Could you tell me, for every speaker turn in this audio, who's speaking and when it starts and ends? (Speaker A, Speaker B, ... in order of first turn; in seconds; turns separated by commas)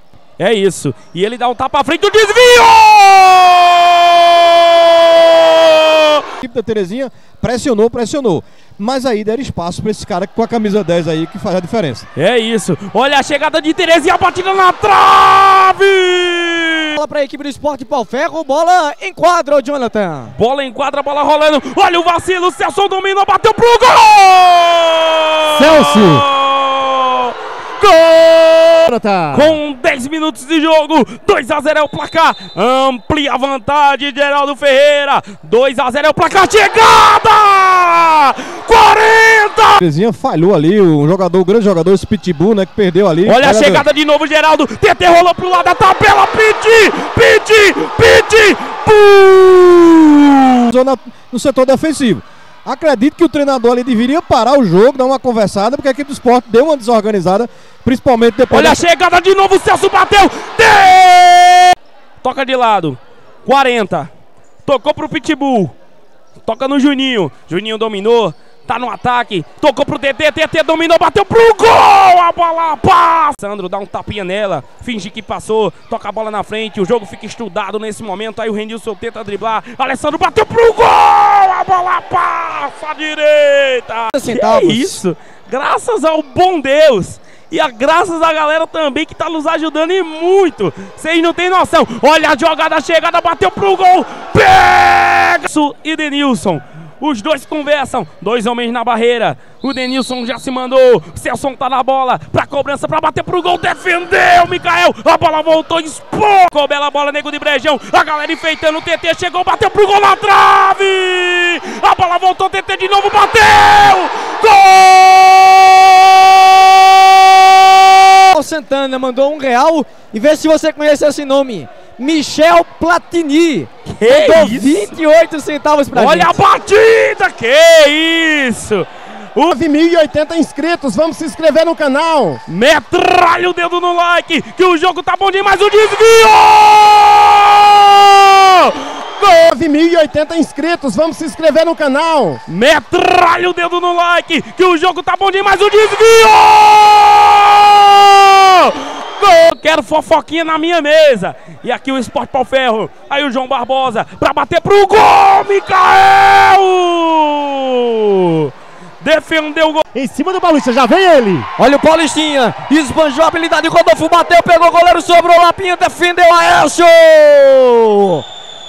Speaker A: 0.4-6.2, Speaker B: 6.4-12.1, Speaker A: 12.2-17.0, Speaker C: 16.9-20.3, Speaker A: 20.3-39.8, Speaker D: 25.5-26.2, Speaker D: 28.9-29.6, Speaker B: 39.8-43.9, Speaker A: 43.2-50.7, Speaker B: 50.7-58.8, Speaker A: 58.5-64.1, Speaker A: 64.6-65.7, Speaker A: 66.4-118.2, Speaker C: 84.1-85.0, Speaker C: 118.3-126.3, Speaker A: 123.9-124.9, Speaker A: 125.9-129.6, Speaker D: 129.5-132.4, Speaker A: 132.5-139.2, Speaker D: 139.2-142.4, Speaker A: 142.5-159.8, Speaker D: 159.9-161.5, Speaker C: 161.6-168.2